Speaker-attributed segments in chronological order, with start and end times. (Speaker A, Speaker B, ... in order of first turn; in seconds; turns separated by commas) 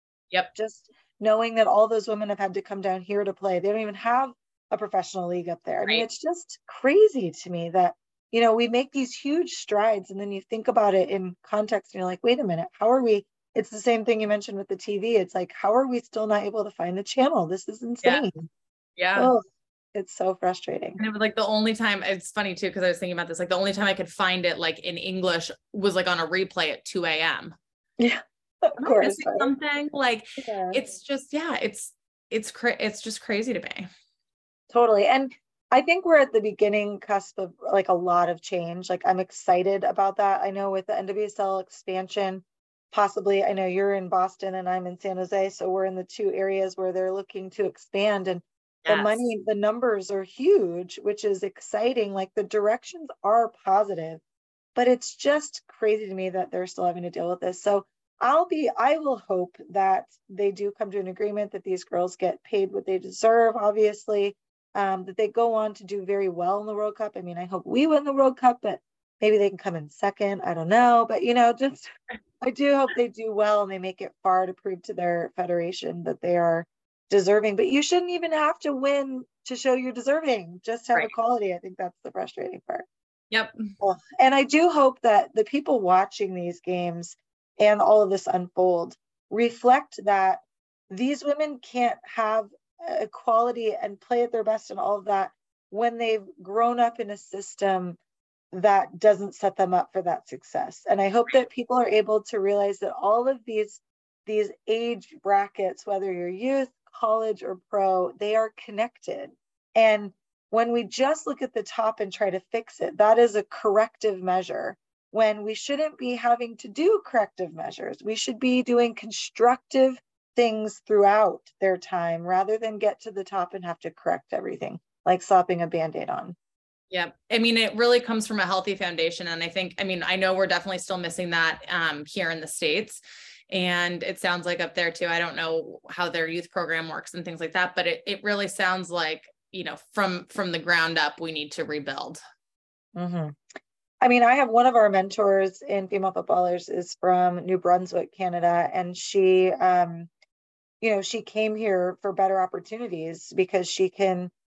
Speaker A: 0.6-18.5, Speaker B: 19.0-19.3, Speaker A: 19.1-19.4, Speaker A: 19.9-21.0, Speaker B: 21.0-27.5, Speaker A: 28.0-29.5, Speaker B: 28.8-33.9, Speaker A: 30.4-30.9, Speaker A: 34.7-54.2, Speaker B: 48.9-49.2, Speaker A: 54.8-71.9, Speaker A: 72.4-82.8, Speaker B: 83.3-83.7, Speaker A: 83.8-98.0, Speaker A: 98.5-126.3, Speaker B: 126.9-142.2, Speaker A: 143.0-143.4, Speaker A: 144.0-150.1, Speaker A: 150.8-154.3